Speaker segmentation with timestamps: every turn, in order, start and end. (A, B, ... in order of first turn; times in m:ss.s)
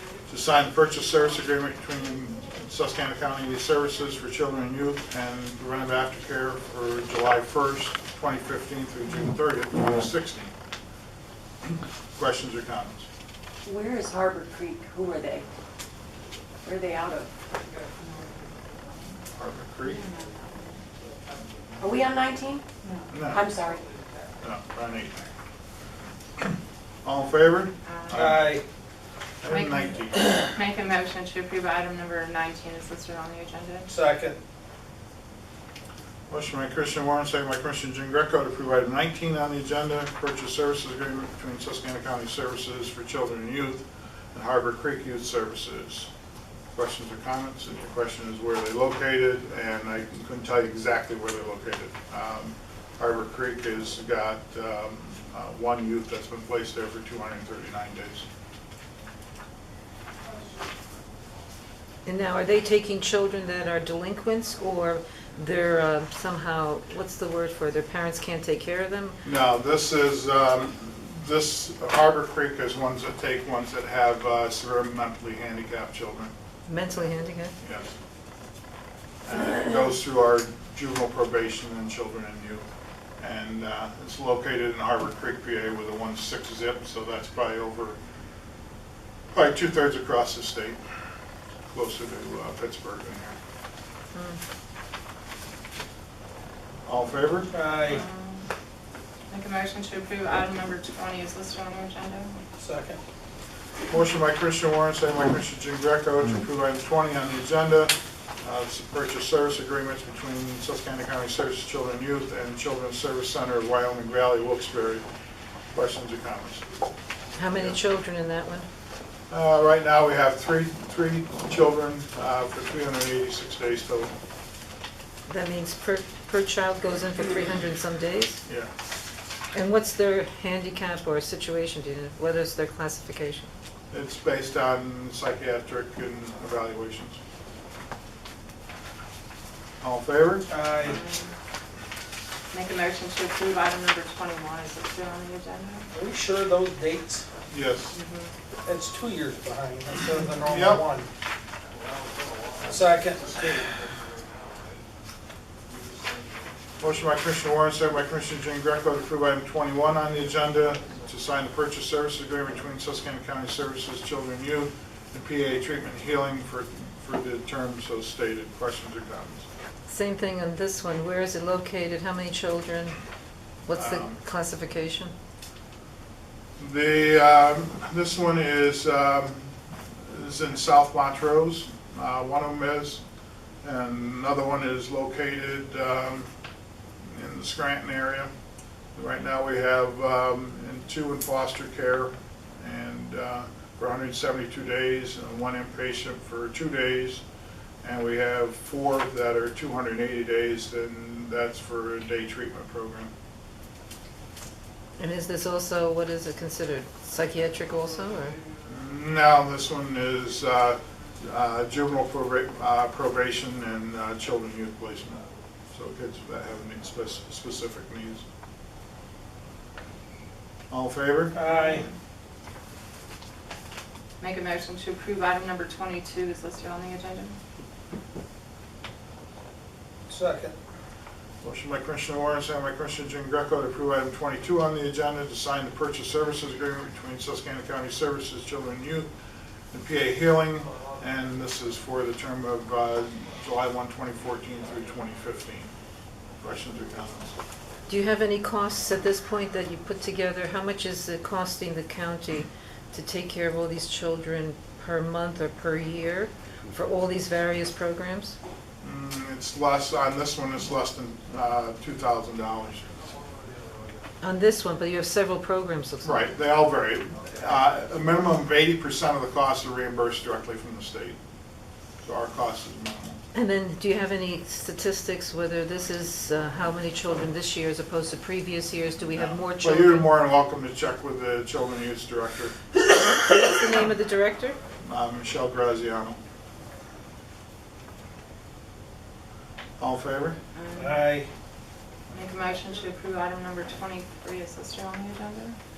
0:00.3-0:10.5 A
0:12.1-0:13.1 A
0:13.6-0:15.5 B
0:16.6-0:17.3 B
0:19.4-0:20.0 A
0:19.8-0:20.8 C
0:21.8-0:22.6 B
0:22.8-0:23.1 C
0:23.1-0:23.5 A
0:23.2-0:23.8 B
0:24.4-0:25.3 A
0:27.0-0:28.6 A
0:27.8-0:28.4 C
0:28.1-0:28.6 D
0:29.4-0:30.2 A
0:29.5-0:33.9 C
0:33.9-0:34.4 D
0:36.3-0:46.1 A
0:46.7-0:58.2 A
1:02.0-1:09.2 E
1:09.2-1:16.3 A
1:16.7-1:17.5 E
1:17.6-1:17.9 A
1:19.2-1:22.6 A
1:23.2-1:28.0 A
1:29.3-1:30.8 A
1:31.7-1:33.4 A
1:34.1-1:34.4 E
1:36.8-1:37.5 A
1:37.5-1:38.0 D
1:37.8-1:38.5 C
1:39.3-1:42.4 C
1:42.6-1:43.0 D
1:43.9-1:55.0 A
1:55.7-1:56.6 A
1:57.4-1:58.7 E
1:59.3-2:04.1 A
2:05.3-2:08.4 E
2:09.5-2:13.5 E
2:13.9-2:17.2 A
2:19.8-2:20.5 A
2:20.5-2:21.0 D
2:20.8-2:21.3 C
2:22.5-2:25.9 C
2:25.9-2:27.2 D
2:27.5-2:28.0 A
2:27.9-2:28.3 C
2:28.6-2:31.1 D
2:30.4-2:30.8 A
2:32.6-2:33.7 D
2:36.8-2:49.5 A
2:49.9-2:53.0 E
2:53.6-2:55.1 E
2:53.7-2:54.2 A
2:56.6-3:03.0 A
3:03.6-3:06.3 A
3:07.0-3:08.3 A
3:08.9-3:17.2 A
3:17.8-3:23.1 A
3:25.0-3:28.4 E
3:28.6-3:38.2 A
3:40.7-3:41.4 A
3:41.3-3:41.8 D
3:41.5-3:41.9 C
3:44.2-3:47.4 C
3:50.1-3:50.6 D
3:51.4-3:59.1 A
3:59.7-4:05.7 A
4:06.4-4:07.4 A
4:07.9-4:18.4 E
4:18.8-4:22.9 A
4:24.2-4:26.3 E
4:26.0-4:31.2 A
4:32.0-4:33.2 A
4:33.3-4:40.1 E
4:39.1-4:42.8 A
4:42.9-4:44.6 E
4:44.8-4:46.2 A
4:49.8-4:50.4 A
4:50.6-4:51.1 C
4:50.7-4:51.3 D
4:52.1-4:55.6 C